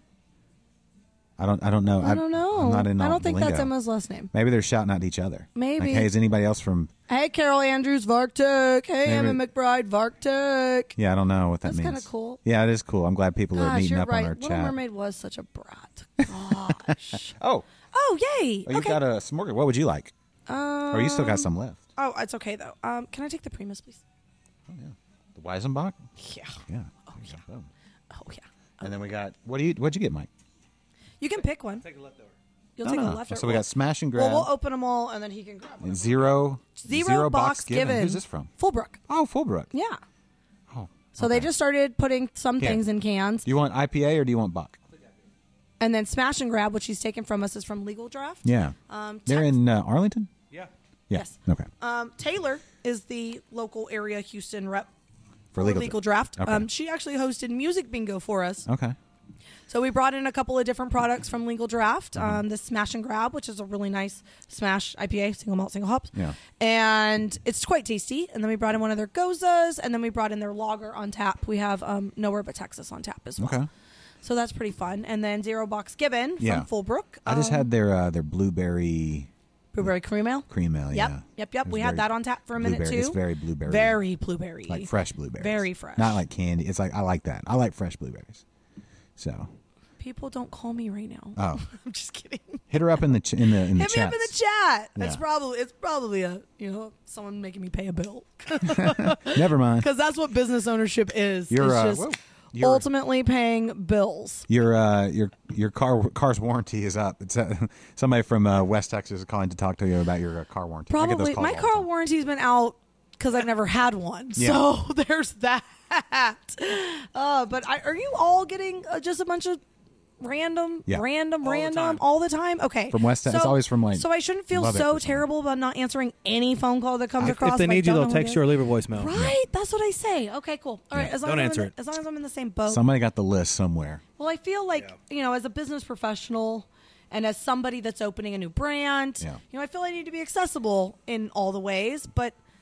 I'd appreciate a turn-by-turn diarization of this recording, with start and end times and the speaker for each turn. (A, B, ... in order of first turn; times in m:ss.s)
0:01.4-0:03.7 A
0:02.0-0:04.3 B
0:04.3-0:06.9 A
0:05.6-0:06.1 B
0:07.1-0:11.0 B
0:09.0-0:09.4 A
0:11.0-0:14.8 A
0:11.6-0:12.4 B
0:13.5-0:17.4 B
0:17.4-0:17.6 A
0:17.9-0:19.0 B
0:18.6-0:20.1 A
0:20.5-0:24.0 B
0:20.9-0:21.8 A
0:24.7-0:26.0 A
0:26.2-0:27.4 B
0:26.7-0:27.7 A
0:28.1-0:28.9 B
0:28.8-0:30.3 A
0:31.2-0:31.8 B
0:31.8-0:32.3 C
0:32.8-0:39.0 B
0:32.8-0:34.5 A
0:35.8-0:38.5 A
0:39.1-0:39.7 A
0:39.7-0:40.0 B
0:40.7-0:41.5 A
0:41.1-0:43.4 B
0:42.6-0:42.8 A
0:43.4-0:44.8 A
0:45.8-0:49.6 B
0:48.4-0:48.8 A
0:49.3-0:50.3 A
0:51.1-0:51.7 A
0:51.1-0:54.9 B
0:55.5-0:56.6 A
0:55.6-0:58.6 B
0:58.6-0:59.0 A
0:59.7-1:13.6 B
1:02.2-1:02.4 A
1:13.4-1:13.7 A
1:14.2-1:17.7 B
1:16.4-1:16.7 A
1:17.2-1:19.3 A
1:19.7-1:26.2 B
1:20.5-1:24.0 A
1:24.7-1:28.4 A
1:29.2-1:29.5 A
1:30.0-1:32.7 B
1:31.4-1:31.6 A
1:32.7-1:34.3 A
1:33.7-1:44.5 B
1:35.0-1:35.2 A
1:38.6-1:39.9 A
1:41.5-1:42.9 A
1:44.5-1:51.9 A
1:50.9-1:59.6 B
1:54.4-1:54.6 A
2:00.2-2:12.8 B
2:01.4-2:02.0 C
2:02.9-2:05.2 A
2:07.2-2:09.2 C
2:11.2-2:11.7 C
2:12.7-2:14.0 A
2:14.2-2:22.3 B